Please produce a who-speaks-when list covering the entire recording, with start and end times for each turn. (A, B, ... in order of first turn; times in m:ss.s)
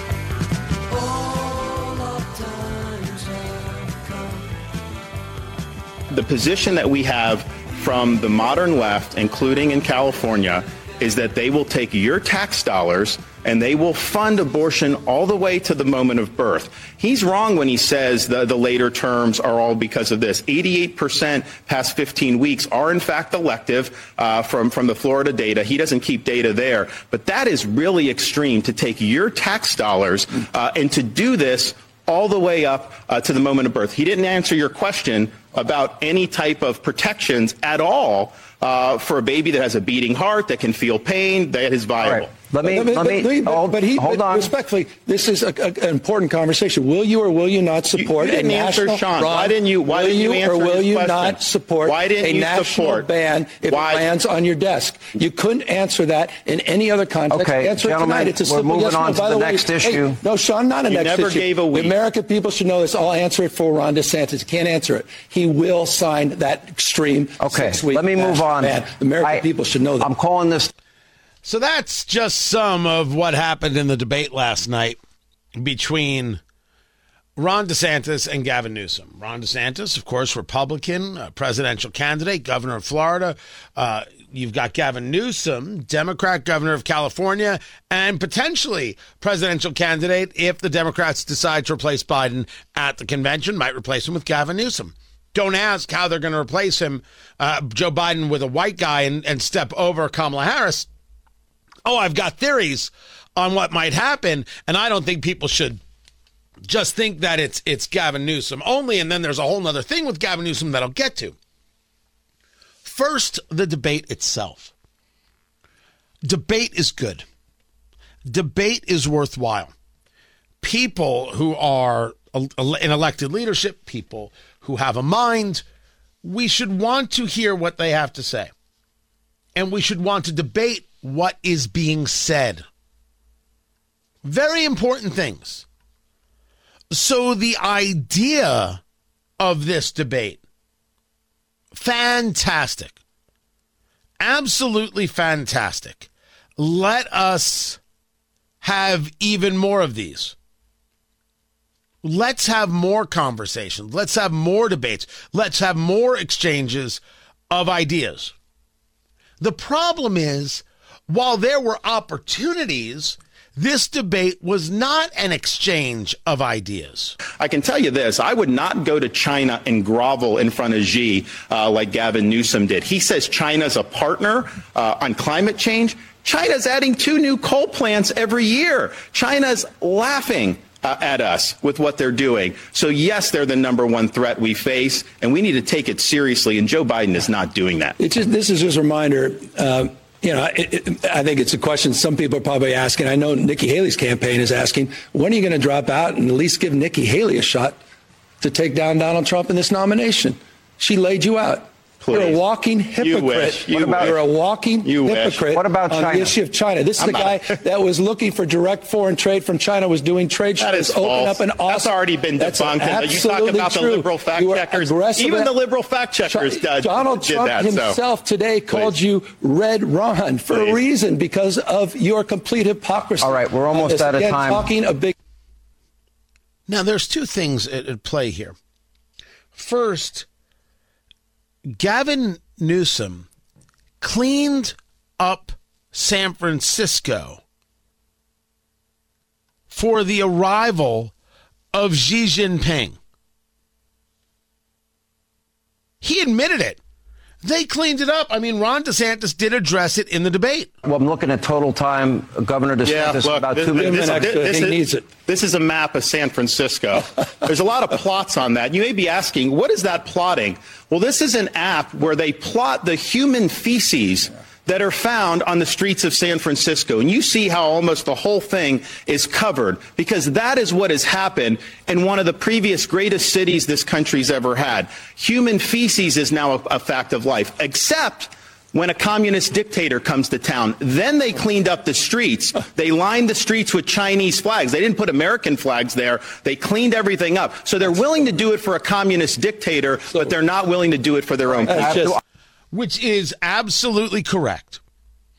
0:06.1-0:42.3 A
0:42.0-0:44.5 B
0:42.6-1:10.1 C
0:48.0-0:53.1 A
0:53.7-0:54.0 A
0:57.3-1:00.2 B
1:00.9-1:02.0 A
1:07.4-1:09.4 B
1:10.0-1:10.7 B
1:11.4-1:15.0 D
1:15.6-1:16.4 D
1:17.4-1:40.9 D
1:41.8-1:45.8 D
1:46.7-1:51.4 D
1:52.8-1:54.7 D
1:56.2-1:57.2 D
1:58.3-1:59.7 D
2:00.6-2:05.6 D
2:06.2-2:08.5 D
2:09.6-2:12.7 D
2:14.2-2:15.7 D
2:16.9-2:18.8 D
2:19.4-2:20.4 D
2:21.7-2:23.0 D
2:24.2-2:27.8 D
2:28.6-2:30.4 D
2:32.0-2:38.3 D
2:39.4-2:47.2 D
2:47.4-3:08.0 A
3:08.0-3:17.8 C
3:18.4-3:35.5 C
3:22.0-3:22.4 A
3:23.0-3:24.2 A
3:23.8-3:24.1 B
3:24.8-3:25.5 A
3:25.5-3:26.4 B
3:27.0-3:27.6 A
3:30.6-3:38.0 A
3:36.3-3:45.1 C
3:38.7-3:39.0 A
3:40.5-3:40.8 A
3:43.2-3:44.7 B
3:46.7-3:48.6 D
3:49.5-3:50.3 D
3:51.7-3:53.3 D
3:54.0-3:57.4 D
3:59.7-4:01.1 D
4:01.7-4:03.0 D
4:06.0-4:06.8 D
4:07.4-4:10.7 D
4:10.8-4:14.4 B
4:12.8-4:52.2 A
4:13.7-4:15.1 C
4:51.6-4:52.2 C
4:51.7-4:52.2 B
4:52.7-4:54.8 D